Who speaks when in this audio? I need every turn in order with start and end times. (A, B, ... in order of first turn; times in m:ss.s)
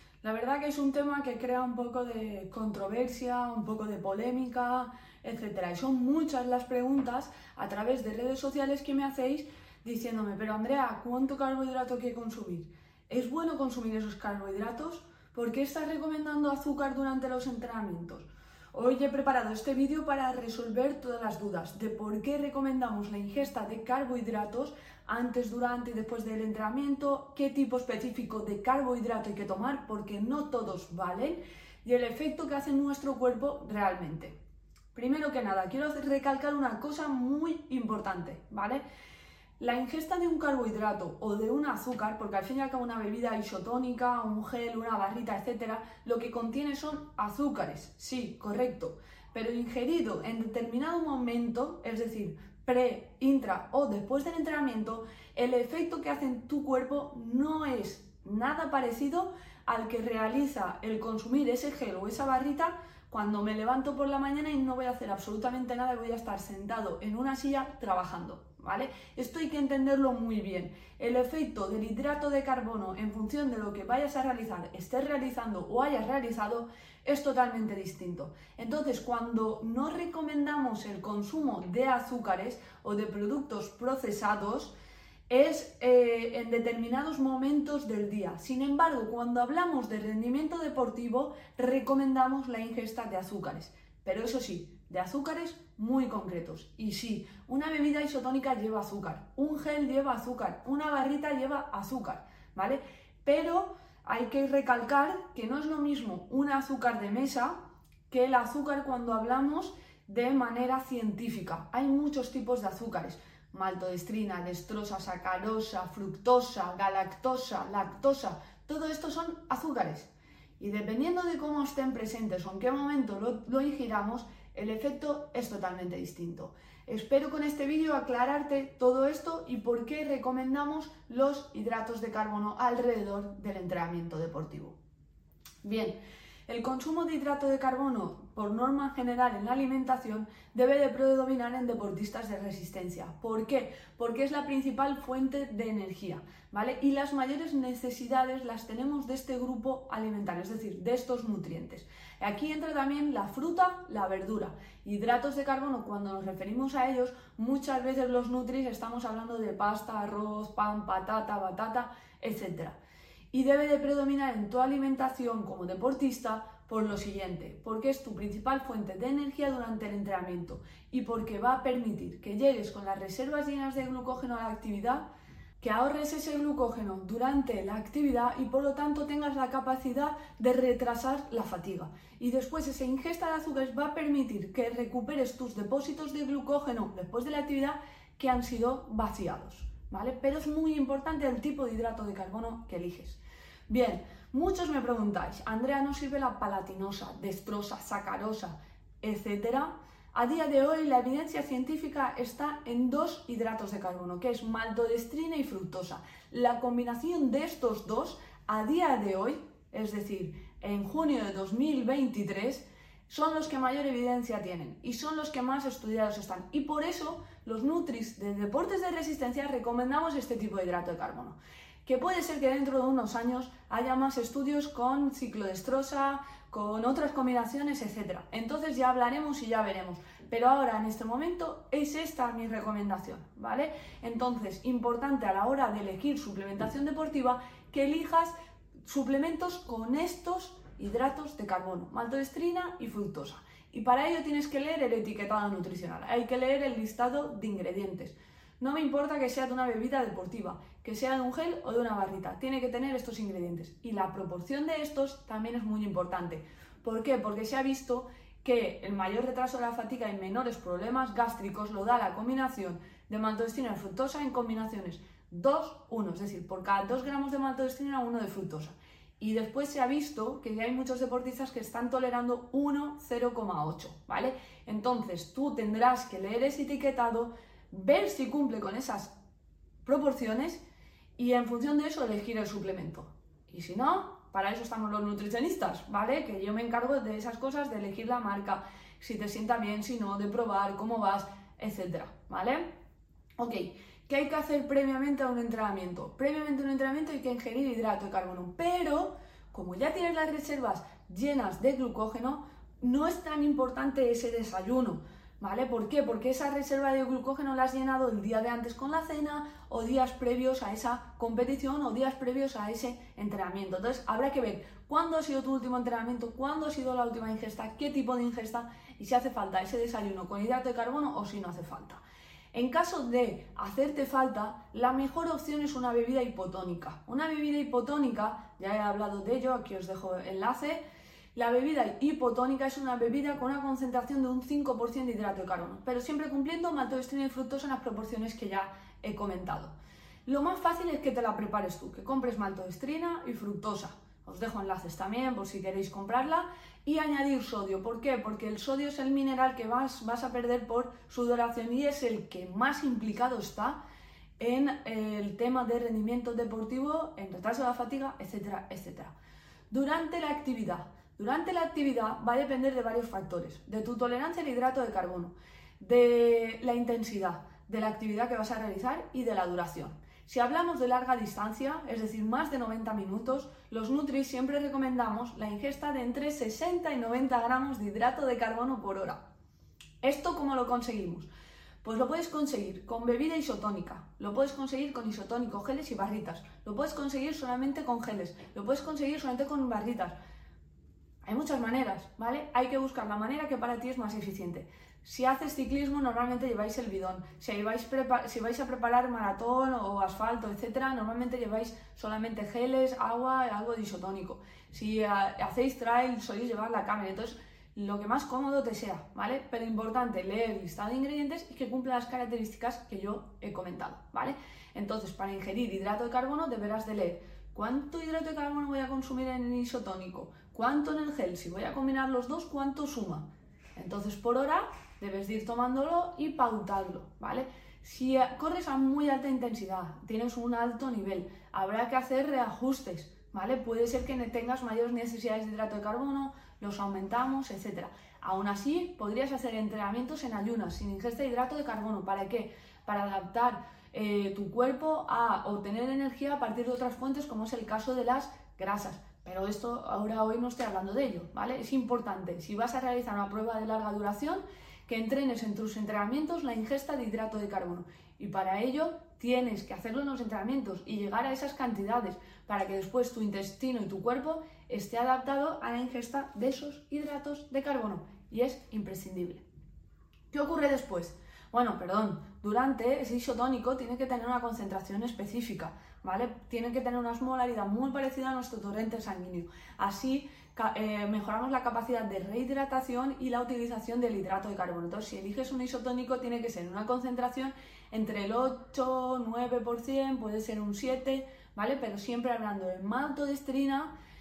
0:00.2-0:34.3 A
0:34.9-0:38.8 A
0:39.6-1:24.7 A
1:25.3-1:47.5 A
1:48.1-2:14.8 A
2:15.6-2:16.0 A
2:16.5-2:42.8 A
2:43.3-2:55.0 A
2:55.6-3:58.3 A
3:58.8-4:39.1 A
4:39.8-4:40.6 A
4:41.2-4:52.7 A
4:53.4-5:22.0 A
5:22.5-5:30.8 A
5:31.3-5:39.7 A
5:40.2-5:53.8 A
5:54.4-5:59.1 A
5:59.7-6:19.2 A
6:20.0-6:21.3 A
6:21.8-6:30.2 A
6:31.2-7:49.4 A
7:50.3-8:13.9 A